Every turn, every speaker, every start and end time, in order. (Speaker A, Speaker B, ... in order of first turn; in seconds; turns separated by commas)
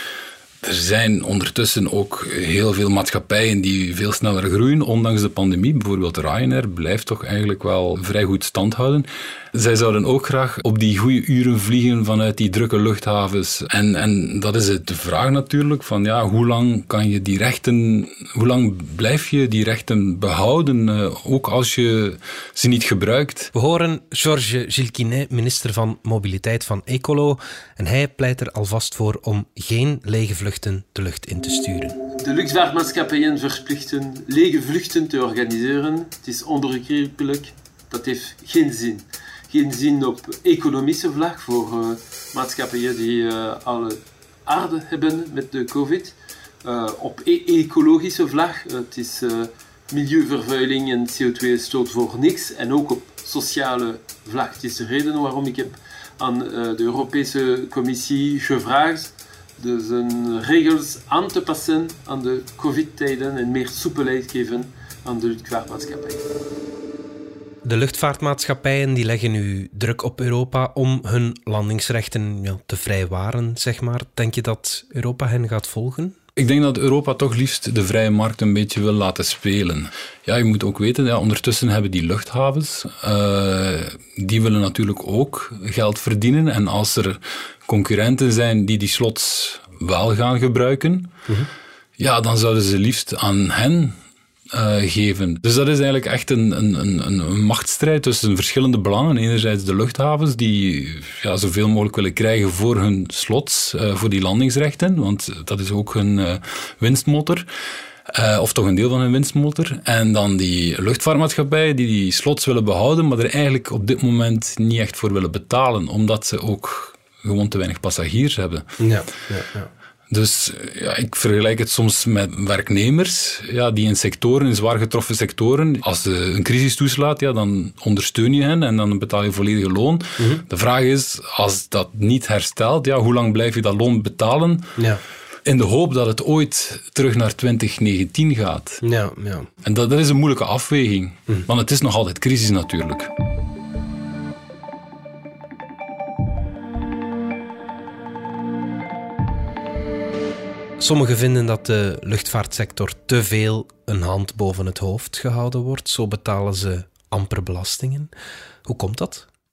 Speaker A: 0.6-23.5, Speaker B: 23.5-32.0, Speaker C: 32.1-66.3, Speaker B: 67.6-76.2, Speaker A: 76.3-91.1, Speaker A: 92.0-94.0, Speaker A: 94.5-107.5, Speaker A: 108.1-118.8, Speaker B: 118.8-119.7, Speaker A: 120.1-134.8, Speaker B: 130.2-130.4, Speaker B: 134.8-135.0, Speaker A: 135.4-138.8, Speaker B: 138.8-139.5, Speaker A: 139.6-143.1, Speaker B: 150.8-158.1, Speaker B: 158.7-159.3